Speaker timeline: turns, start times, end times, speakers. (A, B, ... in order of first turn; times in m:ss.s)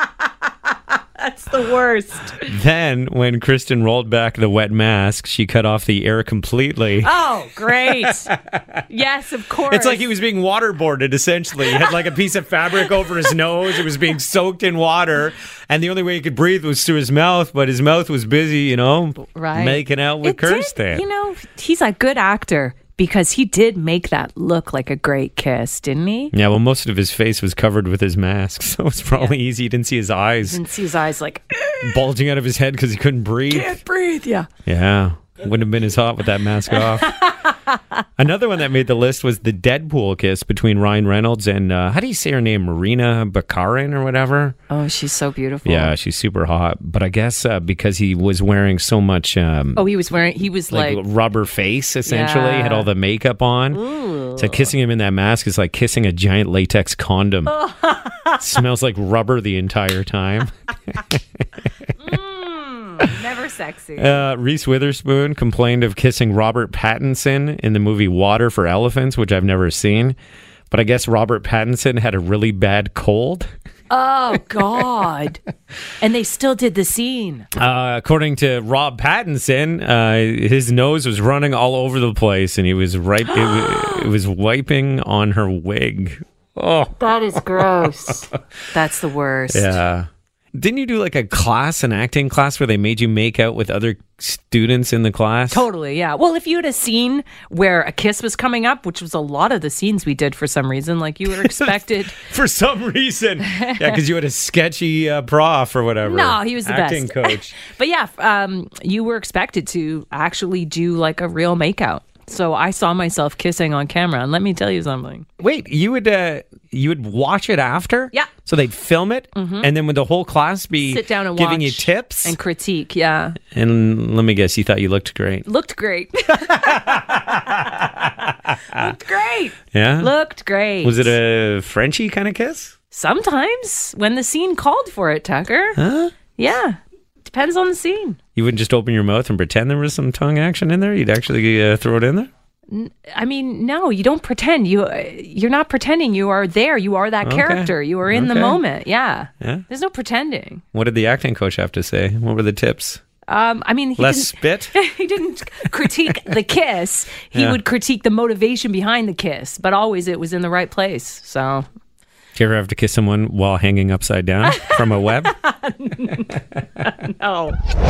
0:01.2-0:02.4 A
0:02.4-0:07.1 B
0:07.0-0:08.3 A
0:07.8-0:08.8 B
0:08.9-0:10.0 A
0:09.7-0:21.0 B
0:19.2-0:26.3 A
0:26.3-0:30.6 B
0:30.4-0:32.0 A
0:31.8-0:33.8 B
0:33.5-0:34.5 A
0:34.6-0:37.1 B
0:36.7-0:37.8 A
0:38.2-0:44.6 B
0:44.7-0:45.9 A
0:45.6-0:49.8 B
0:49.8-0:51.0 A
0:50.7-0:53.8 B
0:52.0-0:52.9 A
0:53.7-0:54.7 A
0:54.4-0:57.5 B
0:57.5-0:58.4 A
0:58.4-1:01.2 B
1:02.0-1:04.2 A
1:04.0-1:10.2 B
1:10.7-1:13.5 B
1:13.9-1:15.4 A
1:16.0-1:17.5 A
1:17.5-1:28.1 B
1:23.3-1:24.0 A
1:27.0-1:29.8 A
1:29.5-1:35.6 B
1:35.5-1:42.2 A
1:41.3-1:47.5 B
1:43.5-1:44.0 A
1:46.0-1:55.2 A
1:55.4-2:02.4 B
1:59.3-1:59.7 A
2:00.8-2:03.4 A
2:03.5-2:05.4 B
2:05.4-2:08.0 A
2:06.4-2:08.9 B
2:08.7-2:11.1 A
2:09.7-2:10.1 B
2:10.8-2:12.7 B
2:12.9-2:15.8 A
2:15.8-2:16.1 B
2:16.4-2:18.2 A
2:18.4-2:22.3 B
2:22.7-2:30.6 A
2:27.2-2:28.6 B
2:30.7-2:33.0 B
2:33.3-2:41.6 A
2:34.0-2:34.7 B
2:37.3-2:37.6 B
2:42.4-2:45.3 B
2:45.4-2:47.6 A